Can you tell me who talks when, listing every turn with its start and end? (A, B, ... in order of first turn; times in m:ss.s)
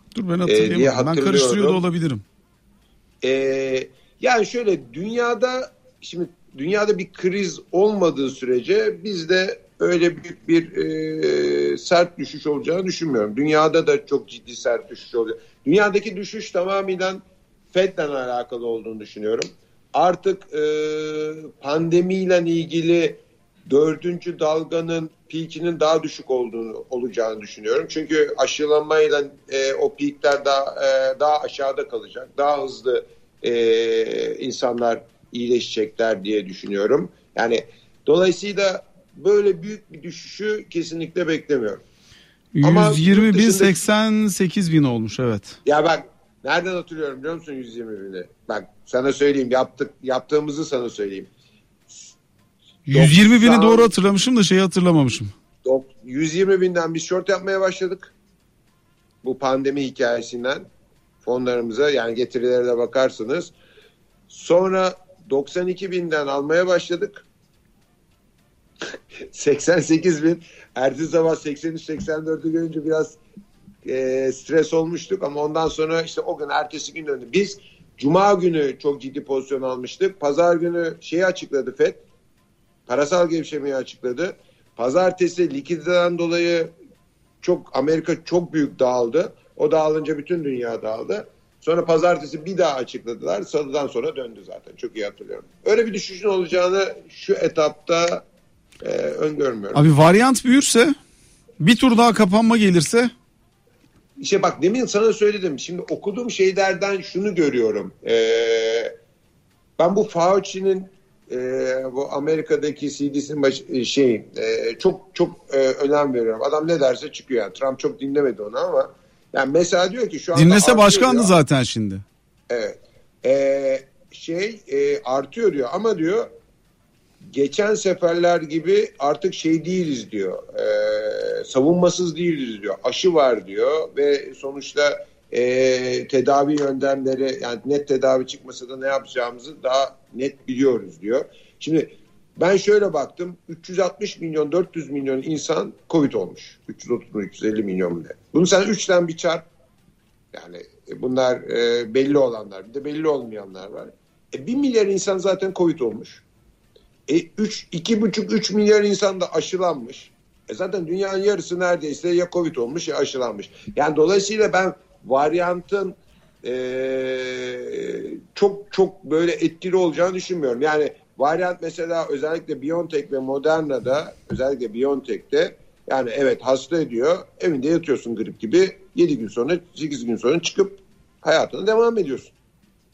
0:00.1-0:02.2 A
0:00.5-0:01.8 B
0:03.2-0:41.8 B
0:42.5-0:45.6 A
0:42.6-0:43.8 B
0:45.6-0:51.3 B
0:52.9-0:55.3 A
0:52.9-0:53.9 B
0:55.6-0:58.1 B
0:59.2-1:00.7 B
1:01.2-1:03.5 B
1:04.3-1:07.2 B
1:09.3-1:13.2 B
1:13.8-1:22.0 B
1:22.9-1:26.7 B
1:27.4-1:38.2 B
1:38.8-1:39.9 B
1:39.7-1:41.0 A
1:41.6-1:43.1 A
1:44.2-1:48.9 B
1:49.8-2:01.3 B
2:00.4-2:02.0 A
2:02.5-2:06.3 B
2:07.3-2:29.5 B
2:30.3-2:36.2 B
2:37.1-3:02.3 B